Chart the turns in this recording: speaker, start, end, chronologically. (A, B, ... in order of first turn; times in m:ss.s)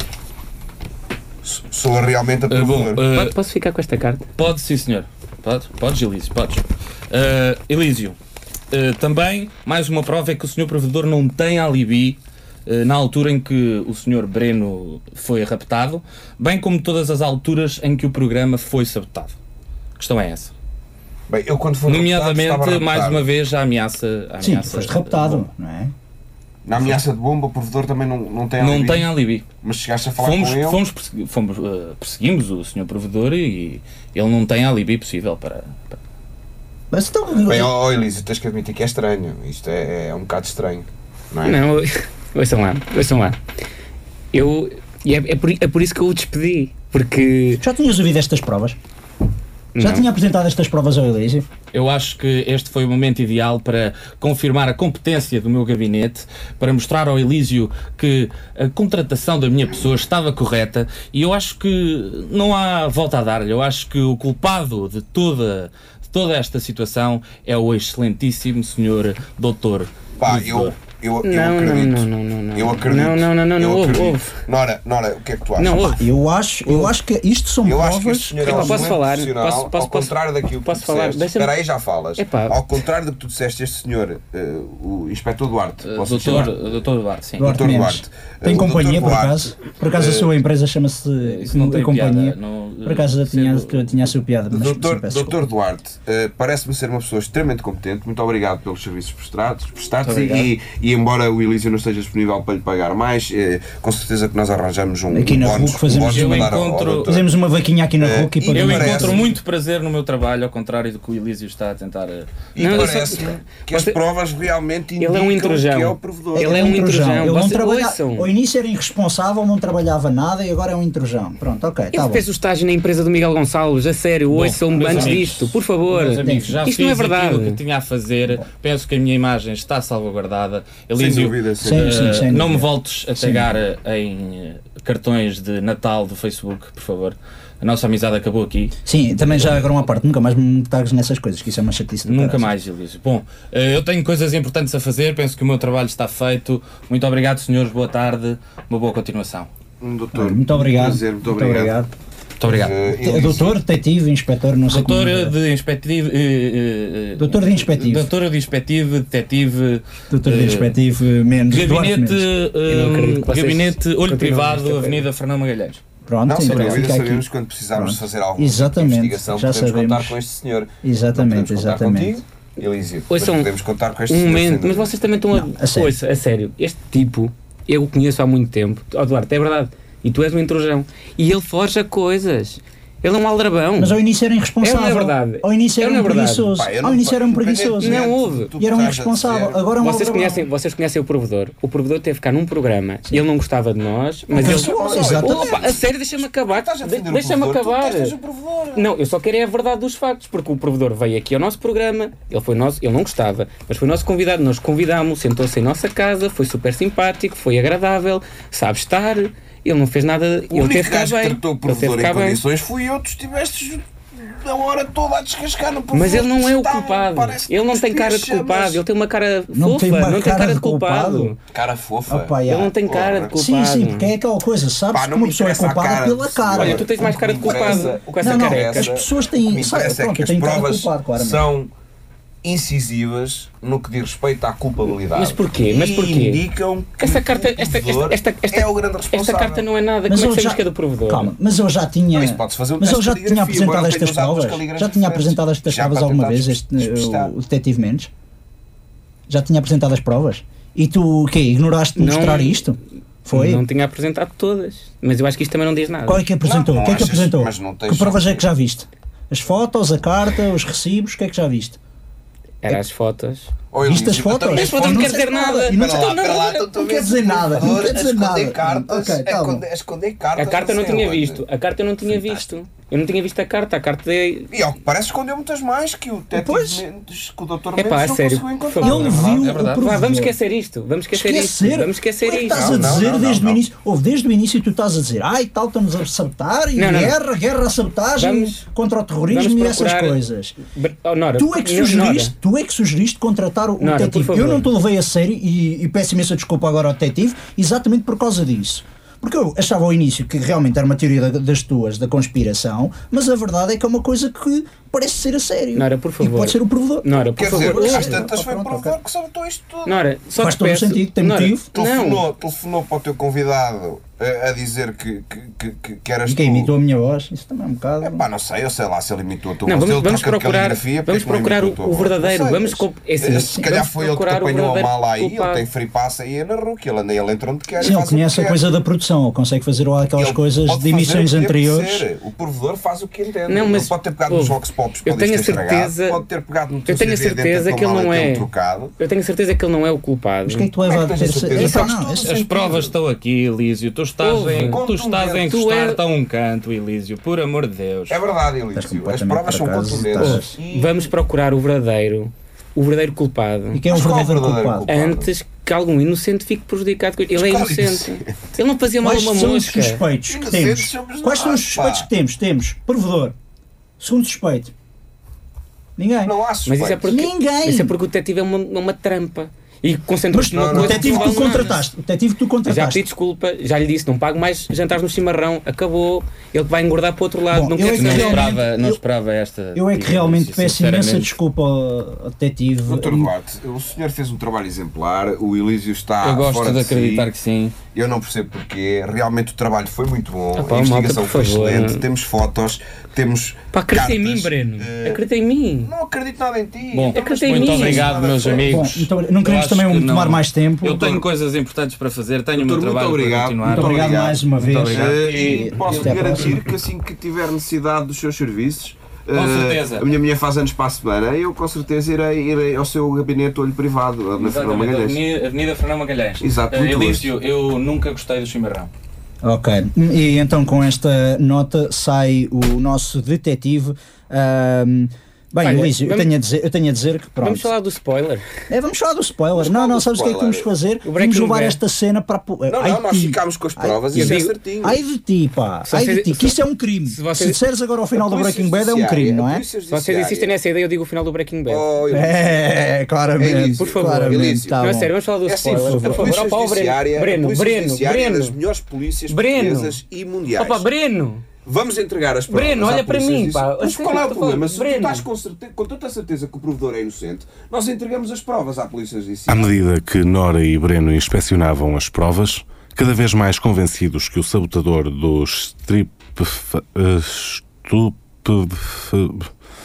0:01.4-0:03.0 A
0:02.5-0:03.4 B
0:03.1-0:04.3 C
0:04.4-0:08.2 B
0:08.7-0:19.4 B
0:20.0-0:20.5 B
0:21.3-0:23.3 A
0:21.9-0:25.5 B
0:24.4-0:25.9 D
0:26.6-0:30.8 A
0:28.6-0:29.5 B
0:30.2-0:36.0 B
0:36.9-0:37.7 D
0:37.5-0:41.6 A
0:41.4-0:43.4 C
0:44.3-0:47.6 C
0:47.6-0:48.8 D
0:49.8-0:50.1 C
0:49.8-0:51.5 D
0:51.7-1:10.8 B
1:10.2-1:16.0 A
1:11.2-1:14.4 C
1:15.6-1:16.1 C
1:16.0-1:18.9 D
1:17.6-1:26.5 A
1:18.4-1:21.6 C
1:22.2-1:22.6 C
1:25.8-1:27.7 B
1:27.4-1:35.5 D
1:27.4-1:29.5 A
1:29.9-1:30.3 B
1:31.2-1:33.9 B
1:34.5-1:47.3 A
1:40.0-1:40.5 B
1:45.1-1:49.2 D
1:46.0-1:47.1 B
1:48.0-1:49.4 A
1:48.5-1:53.1 B
1:52.6-1:54.0 C
1:52.6-1:56.7 A
1:55.0-1:58.3 C
1:56.4-2:02.2 D
2:01.9-2:07.6 C
2:04.3-2:18.7 B
2:04.9-2:05.2 A
2:06.2-2:06.6 D
2:11.0-2:12.2 A
2:11.6-2:13.5 D
2:18.9-2:22.5 D
2:22.1-2:29.5 B
2:29.8-2:31.8 A
2:30.1-2:31.9 D
2:32.4-2:32.8 B
2:32.4-2:33.6 A
2:33.0-2:35.4 D
2:34.7-2:40.8 B
2:37.2-2:38.1 D
2:40.1-2:42.3 D
2:41.5-2:45.8 B
2:42.7-2:45.0 C
2:46.1-2:50.2 D
2:46.2-2:54.9 A
2:46.4-2:46.9 B
2:50.8-2:52.2 D
2:53.1-2:53.5 C
2:54.1-3:04.0 C
2:55.3-2:55.9 D
3:03.8-3:10.5 D
3:04.6-3:06.5 C
3:06.6-3:09.7 A
3:07.8-3:08.5 C
3:09.8-3:18.2 C
3:14.3-3:18.9 A
3:14.3-3:15.7 D
3:18.7-3:32.4 C
3:30.5-3:38.8 A
3:35.9-3:41.4 C
3:39.5-3:41.4 D
3:41.5-3:43.4 A
3:42.1-3:42.8 D
3:42.4-3:44.1 C
3:43.3-3:51.5 D
3:44.9-3:51.7 A
3:46.6-3:49.0 C
3:52.4-3:59.6 A
3:55.1-3:56.4 C
3:57.0-4:01.3 C
4:00.1-4:08.1 D
4:02.1-4:07.3 A
4:09.3-4:13.6 D
4:12.0-4:12.7 C
4:13.3-4:16.2 C
4:16.1-4:21.8 D
4:16.4-4:18.4 A
4:22.6-4:23.5 C
4:23.7-4:31.4 A
4:23.8-4:29.6 D
4:24.5-4:26.7 C
4:30.4-4:34.5 C
4:34.5-4:39.5 A
4:36.3-4:36.8 D
4:37.8-4:42.9 C
4:38.8-4:40.4 D
4:39.2-4:39.9 B
4:41.1-4:50.6 D
4:42.4-4:43.6 A
4:46.8-4:47.2 C
4:48.2-4:48.6 C
4:49.3-4:52.3 C
4:51.4-5:09.0 D
4:53.8-4:54.7 C
5:05.8-5:08.3 C
5:07.4-5:10.1 A
5:09.8-5:12.2 C
5:10.4-5:11.7 D
5:11.7-5:16.7 A
5:16.3-5:18.2 D
5:18.0-5:28.8 A
5:19.6-5:25.6 C
5:27.8-5:32.1 D
5:30.2-5:38.9 A
5:33.5-5:36.2 C
5:36.9-5:40.7 C
5:40.5-5:42.3 D
5:40.9-5:43.0 A
5:41.6-5:48.2 B
5:44.2-5:44.8 C
5:44.5-5:45.6 A
5:45.5-5:46.0 C
5:48.1-5:51.1 A
5:48.8-5:50.6 D
5:50.2-5:53.8 C
5:53.7-5:54.9 D
5:53.9-5:55.3 A
5:54.9-6:00.0 C
5:57.3-5:58.3 A
5:59.0-6:03.4 D
6:00.3-6:02.1 A
6:04.0-6:04.7 D
6:06.0-6:06.4 D
6:06.2-6:07.2 A
6:06.7-6:11.8 C
6:07.1-6:08.0 D
6:10.3-6:13.0 D
6:10.5-6:11.8 A
6:12.7-6:18.5 C
6:17.5-6:19.0 D
6:17.9-6:21.3 B
6:19.7-6:23.3 D
6:22.9-6:27.3 A
6:26.2-6:27.8 B
6:27.9-6:35.2 A
6:30.6-6:32.0 C
6:33.7-6:35.9 C
6:35.8-6:38.9 A
6:36.9-6:46.6 B
6:37.1-6:38.1 C
6:38.5-6:41.2 D
6:42.6-6:55.2 A
6:43.7-6:46.6 D
6:49.3-6:50.1 B
6:54.4-6:58.9 B
6:56.4-6:57.3 A
6:59.4-7:07.7 D
7:05.6-7:06.3 C
7:07.4-7:08.4 C
7:08.7-7:19.6 D
7:09.6-7:10.7 A
7:11.0-7:11.8 C
7:12.7-7:15.0 A
7:14.2-7:14.5 C
7:15.9-7:17.6 C
7:18.2-7:20.5 A
7:19.9-7:21.9 C
7:21.7-7:22.6 A
7:22.1-7:25.1 D
7:23.4-7:24.8 A
7:23.8-7:28.6 C
7:25.4-7:30.9 A
7:25.8-7:26.4 D
7:29.3-7:30.0 C
7:30.6-7:31.4 C
7:31.6-7:39.8 A
7:32.5-7:35.2 C
7:39.5-7:49.5 E